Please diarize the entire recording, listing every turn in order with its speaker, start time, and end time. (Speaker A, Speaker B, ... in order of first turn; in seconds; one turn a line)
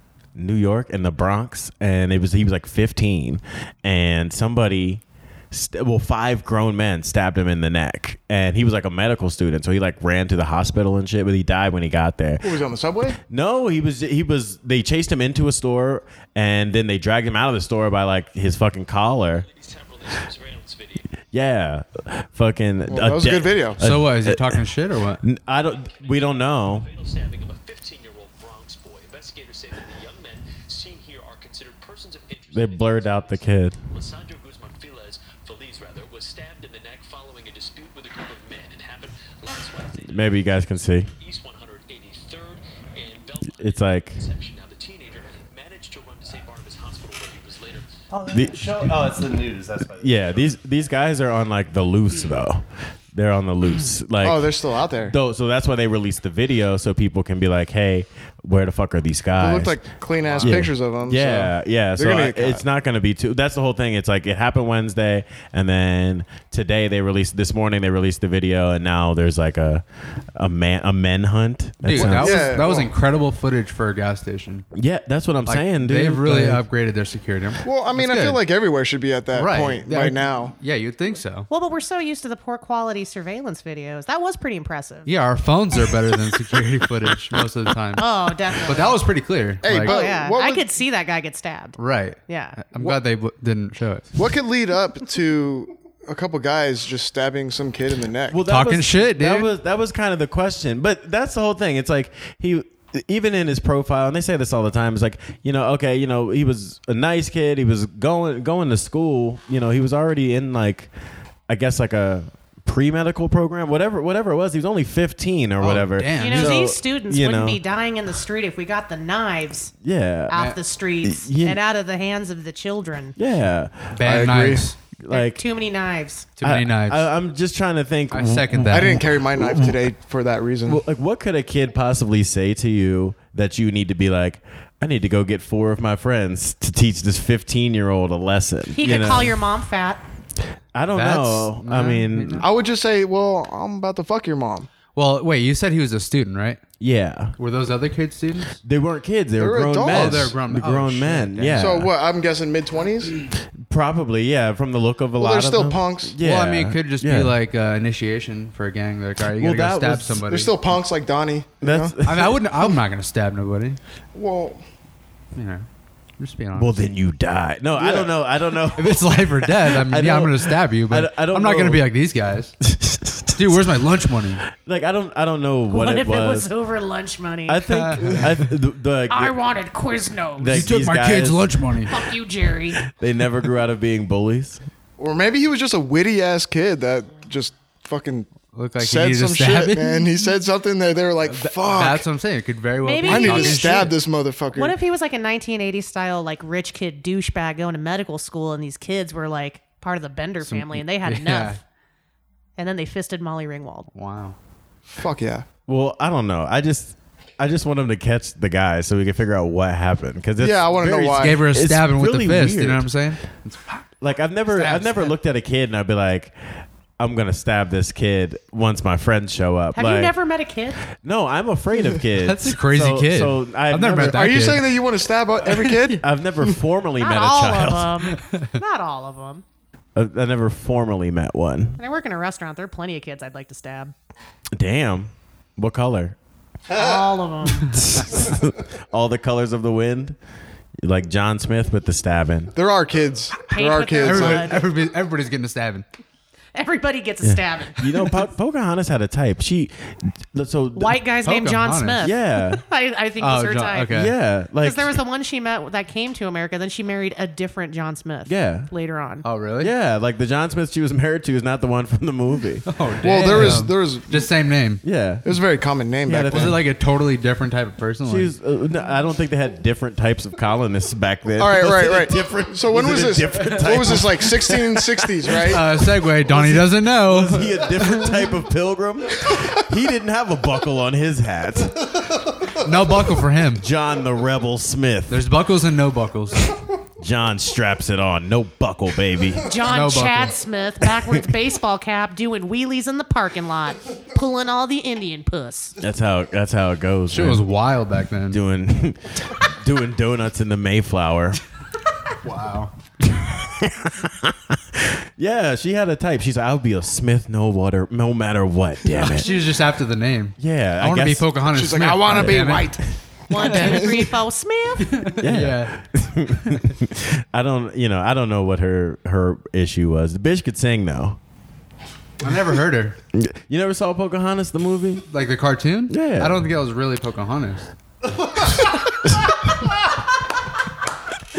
Speaker A: 0.4-12.5
Speaker B: 12.4-13.2
Speaker A: 13.3-19.4
Speaker C: 19.3-21.1
Speaker A: 21.3-24.6
Speaker B: 22.9-23.8
Speaker D: 23.8-25.2
Speaker A: 25.2-26.9
Speaker C: 25.8-40.6
Speaker A: 32.5-33.8
Speaker A: 40.1-41.1
Speaker C: 41.2-48.0
Speaker A: 43.6-44.2
Speaker E: 48.1-50.5
Speaker A: 48.3-48.7
Speaker A: 50.0-54.5
Speaker B: 54.2-55.2
Speaker A: 55.0-59.8
Speaker B: 59.4-62.6
Speaker A: 60.4-69.8
Speaker A: 70.3-72.7
Speaker D: 71.8-74.6
Speaker B: 71.9-72.9
Speaker A: 74.7-76.6
Speaker D: 75.5-78.4
Speaker B: 77.6-80.5
Speaker D: 79.3-81.5
Speaker F: 81.5-85.1
Speaker D: 85.0-88.0
Speaker F: 88.0-89.0
Speaker D: 88.6-90.0
Speaker B: 89.6-90.6
Speaker F: 89.8-92.6
Speaker D: 91.8-94.1
Speaker B: 94.2-98.4
Speaker A: 98.3-110.9
Speaker D: 98.5-99.5
Speaker A: 111.5-117.6
Speaker D: 115.6-116.6
Speaker F: 116.1-119.7
Speaker A: 119.8-120.4
Speaker F: 120.3-123.2
Speaker A: 121.0-121.6
Speaker A: 123.2-123.9
Speaker D: 123.9-124.8
Speaker B: 124.0-124.7
Speaker A: 125.0-125.5
Speaker F: 125.1-126.3
Speaker D: 126.4-127.1
Speaker A: 126.4-129.8
Speaker D: 128.1-129.1
Speaker B: 128.7-130.8
Speaker A: 130.7-139.4
Speaker F: 138.7-140.0
Speaker A: 140.7-142.4
Speaker D: 140.9-142.5
Speaker B: 142.4-144.7
Speaker D: 144.9-146.6
Speaker A: 146.8-147.4
Speaker D: 147.4-148.6
Speaker A: 148.6-151.9
Speaker B: 149.4-150.4
Speaker D: 149.9-151.8
Speaker B: 151.6-153.2
Speaker A: 153.6-157.3
Speaker B: 155.2-156.2
Speaker D: 156.2-160.5
Speaker A: 159.3-160.2
Speaker B: 160.2-162.0
Speaker A: 161.6-162.7
Speaker D: 162.0-163.8
Speaker B: 164.1-164.6
Speaker D: 165.4-165.7
Speaker D: 166.2-166.8
Speaker A: 166.5-171.9
Speaker B: 167.8-168.1
Speaker D: 168.6-172.6
Speaker A: 172.6-173.7
Speaker D: 173.3-174.4
Speaker A: 174.6-176.5
Speaker F: 175.7-178.1
Speaker A: 177.5-179.3
Speaker D: 177.7-178.5
Speaker F: 179.1-180.7
Speaker A: 180.4-181.6
Speaker D: 180.5-182.0
Speaker F: 181.8-182.8
Speaker A: 182.8-184.6
Speaker B: 185.0-192.1
Speaker D: 188.5-190.1
Speaker D: 191.2-194.0
Speaker F: 192.8-193.9
Speaker B: 193.1-194.7
Speaker F: 194.5-201.6
Speaker D: 200.4-201.6
Speaker F: 202.6-203.9
Speaker D: 203.9-204.4
Speaker B: 204.9-205.5
Speaker A: 205.7-212.9
Speaker B: 210.4-211.4
Speaker D: 211.2-213.8
Speaker A: 214.0-216.3
Speaker D: 214.5-215.1
Speaker A: 217.0-220.1
Speaker F: 219.8-220.8
Speaker A: 221.0-224.3
Speaker D: 222.1-224.8
Speaker B: 224.0-226.6
Speaker D: 225.5-225.8
Speaker A: 226.0-228.1
Speaker F: 227.0-229.4
Speaker D: 228.2-228.6
Speaker A: 229.9-231.8
Speaker F: 231.8-233.9
Speaker A: 234.6-236.2
Speaker F: 236.7-238.0
Speaker A: 237.7-240.2
Speaker A: 240.8-242.5
Speaker B: 242.5-244.6
Speaker F: 243.5-244.6
Speaker D: 244.0-245.8
Speaker F: 246.6-247.8
Speaker A: 247.2-251.0
Speaker F: 250.8-259.2
Speaker D: 251.2-252.1
Speaker A: 252.0-252.6
Speaker D: 253.2-254.1
Speaker A: 253.9-255.0
Speaker A: 258.2-258.7
Speaker D: 259.2-259.7
Speaker A: 259.6-262.7
Speaker D: 262.6-264.8
Speaker B: 263.0-264.3
Speaker A: 263.3-263.6
Speaker A: 264.8-265.2
Speaker B: 265.2-266.6
Speaker A: 266.1-266.7
Speaker D: 266.3-268.3
Speaker A: 268.1-282.3
Speaker B: 271.4-275.7
Speaker D: 275.5-278.3
Speaker D: 282.6-283.7
Speaker A: 283.5-285.3
Speaker D: 285.1-286.6
Speaker A: 287.0-289.6
Speaker F: 289.4-295.8
Speaker D: 289.6-290.4
Speaker A: 295.8-297.4
Speaker D: 297.1-298.4
Speaker A: 298.3-301.4
Speaker D: 302.2-302.7
Speaker A: 303.0-309.4
Speaker D: 308.9-312.8
Speaker A: 310.4-311.3
Speaker B: 311.5-312.8
Speaker A: 312.1-312.5
Speaker F: 313.3-315.2
Speaker D: 313.3-314.0
Speaker B: 313.3-314.1
Speaker D: 314.8-316.8
Speaker A: 315.2-321.2
Speaker D: 322.2-323.0
Speaker A: 323.1-325.1
Speaker D: 325.1-327.7
Speaker A: 325.9-326.5